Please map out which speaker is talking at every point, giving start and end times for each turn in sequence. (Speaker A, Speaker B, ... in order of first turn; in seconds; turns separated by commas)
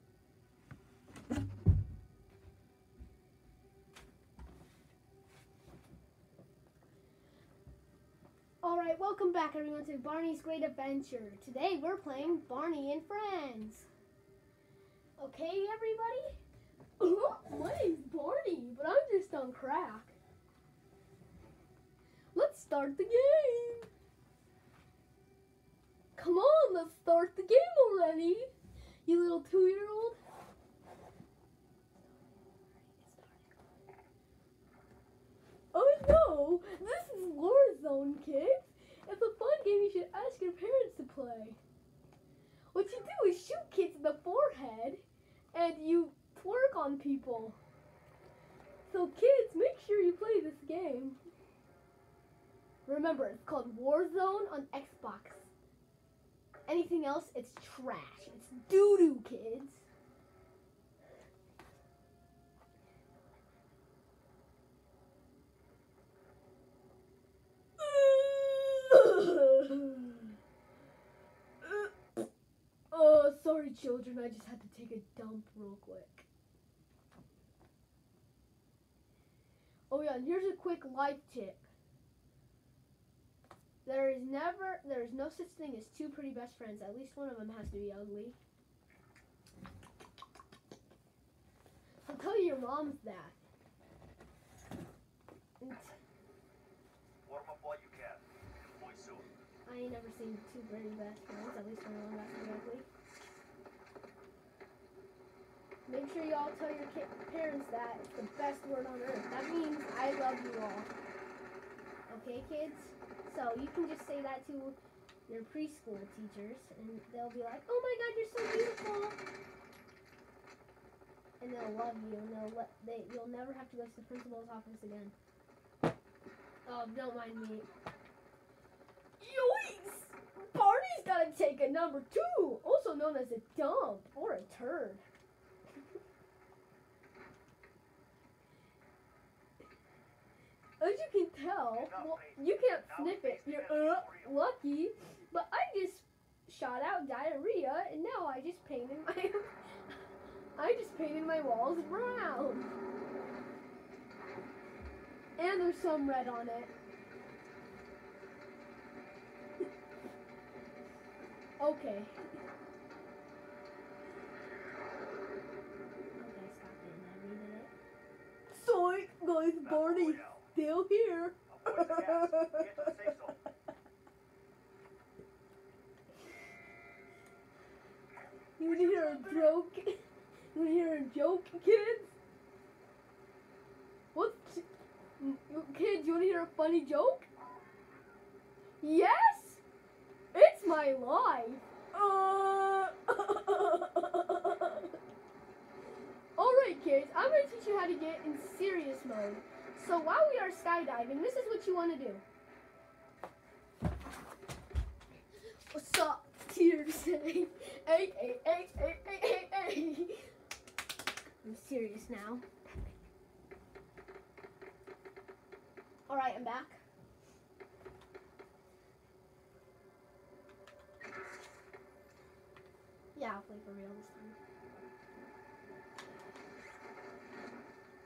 Speaker A: 8.6-13.9, Speaker A: 15.2-16.4, Speaker A: 17.0-20.2, Speaker A: 22.3-23.9, Speaker A: 26.1-28.5, Speaker A: 29.1-30.2, Speaker A: 32.8-33.5, Speaker A: 35.7-41.6, Speaker A: 42.7-45.0, Speaker A: 45.5-47.6, Speaker A: 48.9-51.2, Speaker A: 52.9-55.5, Speaker A: 56.7-59.8, Speaker A: 67.8-70.3, Speaker A: 71.6-72.2, Speaker A: 72.9-76.3, Speaker A: 79.9-81.7, Speaker A: 83.8-88.4, Speaker A: 92.0-93.4, Speaker A: 95.6-96.0, Speaker B: 97.2-99.3, Speaker A: 99.7-102.9, Speaker A: 105.9-110.9, Speaker A: 112.1-114.8, Speaker A: 115.3-119.2, Speaker A: 121.4-125.1, Speaker A: 126.7-127.7, Speaker A: 129.2-135.0, Speaker A: 140.8-149.5, Speaker B: 141.7-144.4, Speaker A: 150.6-152.7, Speaker A: 155.4-156.7, Speaker A: 161.6-162.2, Speaker A: 166.2-167.7, Speaker A: 168.5-173.1, Speaker B: 169.6-170.5, Speaker B: 171.5-173.4, Speaker A: 178.6-180.0, Speaker B: 178.6-179.5, Speaker A: 180.5-182.1, Speaker A: 184.1-184.7, Speaker A: 185.2-187.3, Speaker A: 188.8-189.6, Speaker A: 190.3-194.9, Speaker A: 196.3-202.2, Speaker A: 205.7-210.3, Speaker A: 211.4-213.0, Speaker A: 216.1-216.8, Speaker A: 223.1-224.4